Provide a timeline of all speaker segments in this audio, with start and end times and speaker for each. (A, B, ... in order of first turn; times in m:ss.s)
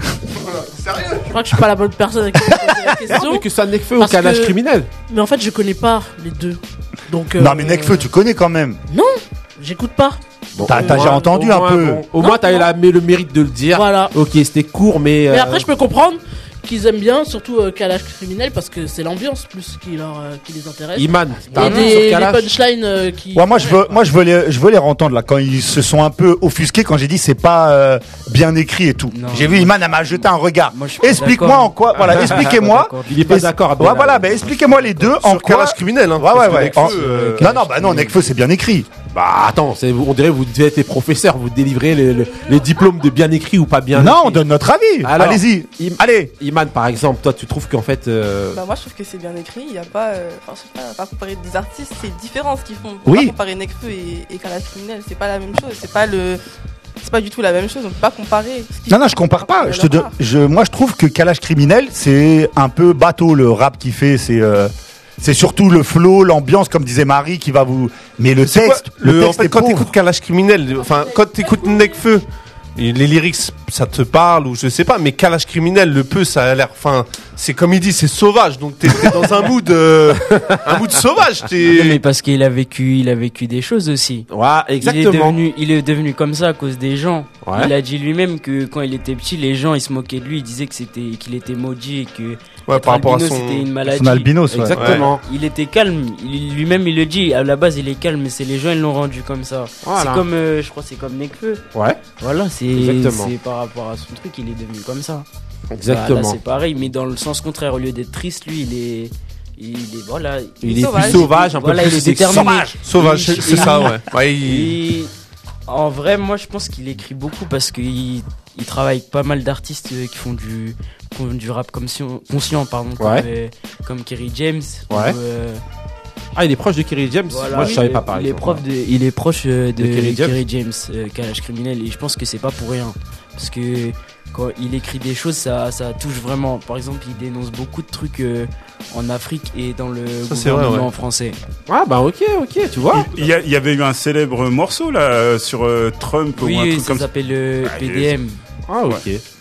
0:00.4-0:01.2 A
0:01.3-0:03.4 B
0:03.1-0:04.9 C
0:04.0-0:04.6 B
0:05.1-0:08.1 B
0:07.4-0:08.8 D
0:08.9-0:11.2 B
0:10.5-0:15.7 C
0:10.6-0:12.0 D
0:12.2-0:12.7 B
0:13.7-0:14.1 B
0:15.3-0:23.9 B
0:21.0-0:22.5 C
0:21.6-0:21.9 E
0:23.3-0:38.9 D
0:29.1-0:33.5 E
0:31.9-0:32.5 C
0:33.1-0:34.5 C
0:34.2-0:35.1 E
0:35.1-0:37.5 A
0:36.4-0:36.7 C
0:36.5-0:38.1 E
0:39.1-0:44.4 C
0:43.9-0:46.3 D
0:45.0-0:48.6 C
0:48.5-0:56.4 F
0:53.0-0:53.3 D
0:57.0-1:00.1 F
0:58.9-1:09.9 D
1:08.5-1:12.2 A
1:12.8-1:22.0 A
1:20.3-1:20.6 C
1:21.6-1:24.3 E
1:24.3-1:25.4 C
1:24.8-1:41.6 E
1:27.4-1:27.7 C
1:32.7-1:33.7 A
1:33.8-1:35.0 D
1:34.5-1:35.2 C
1:34.8-1:35.0 A
1:39.8-1:40.2 C
1:41.7-1:42.0 C
1:42.2-1:45.2 E
1:42.7-1:43.3 C
1:45.7-1:46.4 C
1:45.9-1:55.1 E
1:50.6-1:52.5 C
1:50.7-1:51.3 F
1:52.3-1:52.8 D
1:52.8-1:54.8 A
1:55.7-2:05.6 E
2:03.0-2:03.2 C
2:04.9-2:05.2 C
2:06.4-2:08.6 C
2:07.3-2:21.4 E
2:09.8-2:10.4 C
2:20.2-2:20.9 A
2:21.7-2:23.1 C
2:22.9-2:27.1 G
2:26.4-2:28.4 E
2:27.6-2:28.1 G
2:28.7-2:29.2 C